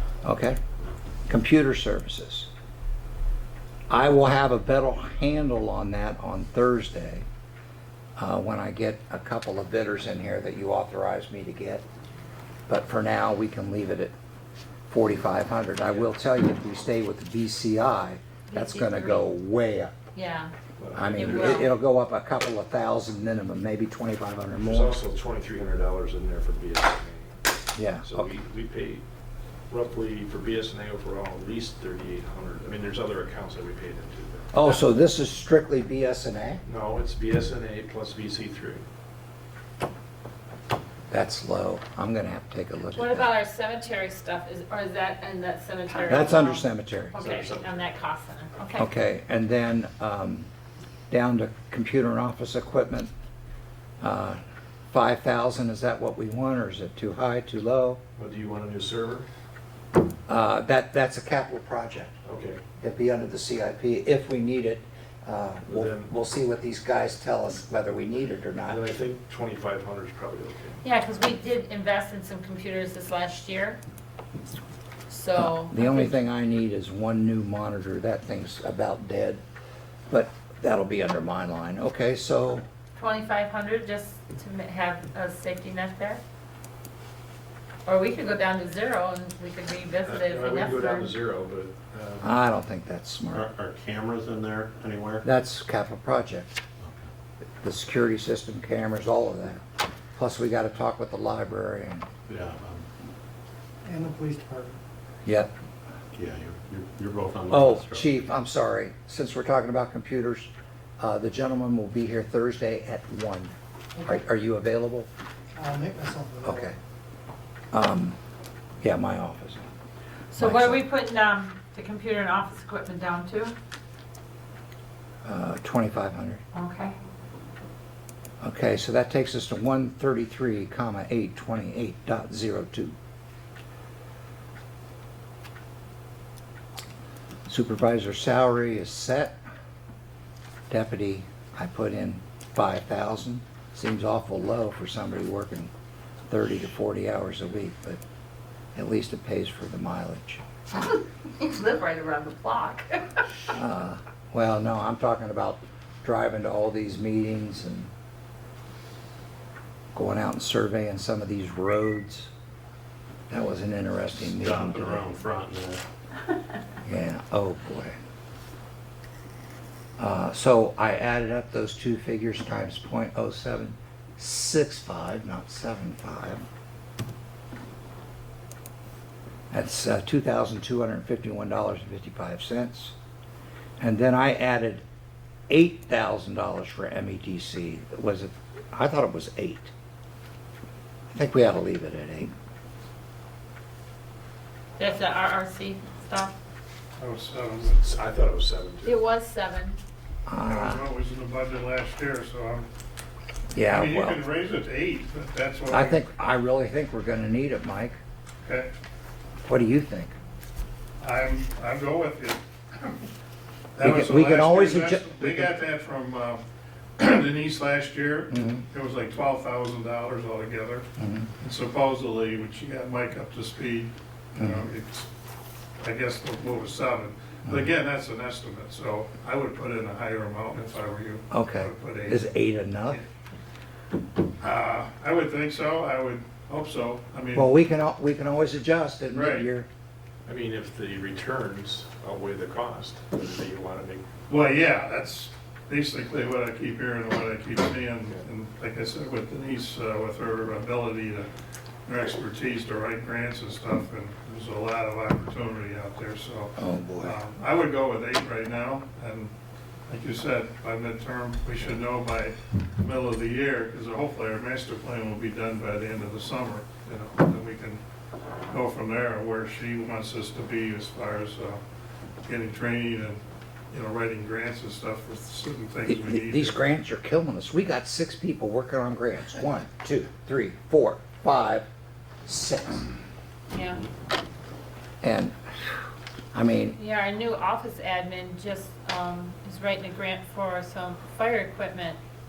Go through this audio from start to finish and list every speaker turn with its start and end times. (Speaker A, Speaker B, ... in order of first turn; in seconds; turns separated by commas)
Speaker A: 0.2-0.6, Speaker A: 1.3-2.5, Speaker A: 3.9-7.3, Speaker A: 8.2-11.8, Speaker A: 12.7-14.1, Speaker A: 14.9-19.9, Speaker B: 18.5-19.3, Speaker B: 20.1-20.5, Speaker C: 20.8-21.7, Speaker A: 20.9-24.9, Speaker B: 21.1-21.7, Speaker C: 24.6-27.4, Speaker A: 27.8-28.3, Speaker C: 28.0-29.0, Speaker C: 29.7-34.6, Speaker A: 34.5-36.6, Speaker C: 36.6-38.9, Speaker A: 41.1-43.3, Speaker B: 43.0-48.9, Speaker A: 46.0-47.2, Speaker C: 47.2-47.8, Speaker A: 48.8-50.5, Speaker A: 51.1-53.1, Speaker A: 54.0-54.4, Speaker A: 54.9-58.0, Speaker C: 58.2-59.3, Speaker A: 60.3-62.1, Speaker C: 62.2-62.6, Speaker A: 62.8-68.8, Speaker C: 65.7-66.1, Speaker C: 68.7-70.8, Speaker B: 70.8-73.8, Speaker B: 75.1-76.2, Speaker A: 75.3-79.4, Speaker A: 80.1-82.7, Speaker B: 83.0-86.2, Speaker B: 87.9-91.1, Speaker C: 90.0-92.3, Speaker A: 92.2-93.5, Speaker D: 93.3-95.3, Speaker A: 95.2-96.6, Speaker D: 96.8-97.1, Speaker A: 97.6-99.7, Speaker A: 100.2-102.1, Speaker D: 102.3-102.9, Speaker E: 103.8-104.8, Speaker A: 105.2-105.5, Speaker D: 106.2-108.2, Speaker A: 107.5-115.1, Speaker E: 115.6-116.7, Speaker A: 116.4-116.8, Speaker A: 117.7-118.2, Speaker A: 118.8-119.7, Speaker B: 120.3-123.5, Speaker A: 120.4-120.8, Speaker A: 125.2-126.4, Speaker B: 126.5-127.0, Speaker A: 128.4-132.9, Speaker A: 137.5-139.4, Speaker A: 140.7-145.7, Speaker A: 146.3-148.0, Speaker A: 148.8-150.4, Speaker B: 150.7-153.2, Speaker A: 153.5-157.9, Speaker A: 159.9-162.3, Speaker A: 163.3-165.1, Speaker D: 164.2-165.8, Speaker A: 166.9-168.0, Speaker A: 170.0-176.4, Speaker A: 179.5-182.9, Speaker A: 183.8-184.8, Speaker A: 185.5-189.7, Speaker A: 191.1-192.3, Speaker B: 194.8-196.4, Speaker F: 197.0-197.8, Speaker C: 197.7-199.0, Speaker B: 198.8-199.8, Speaker A: 200.3-200.9, Speaker F: 200.4-202.7, Speaker A: 203.6-204.2, Speaker F: 203.7-206.0, Speaker A: 205.7-208.0, Speaker F: 208.4-208.7, Speaker A: 209.4-210.1, Speaker F: 211.0-213.0, Speaker F: 213.8-216.4, Speaker A: 213.8-215.5, Speaker F: 217.0-220.9, Speaker A: 218.3-218.6, Speaker A: 221.0-221.3, Speaker F: 221.4-225.1, Speaker A: 224.4-224.7, Speaker F: 225.8-232.3, Speaker A: 231.3-233.0, Speaker F: 234.4-237.5, Speaker A: 237.3-239.7, Speaker F: 239.1-239.5, Speaker C: 240.2-244.1, Speaker F: 244.3-251.3, Speaker F: 251.9-259.3, Speaker A: 256.6-257.2, Speaker F: 259.9-267.8, Speaker F: 268.5-271.6, Speaker F: 272.3-276.6, Speaker A: 275.9-281.7, Speaker A: 282.2-282.9, Speaker B: 283.5-283.8, Speaker A: 285.0-285.4, Speaker A: 286.3-286.8, Speaker B: 286.8-292.0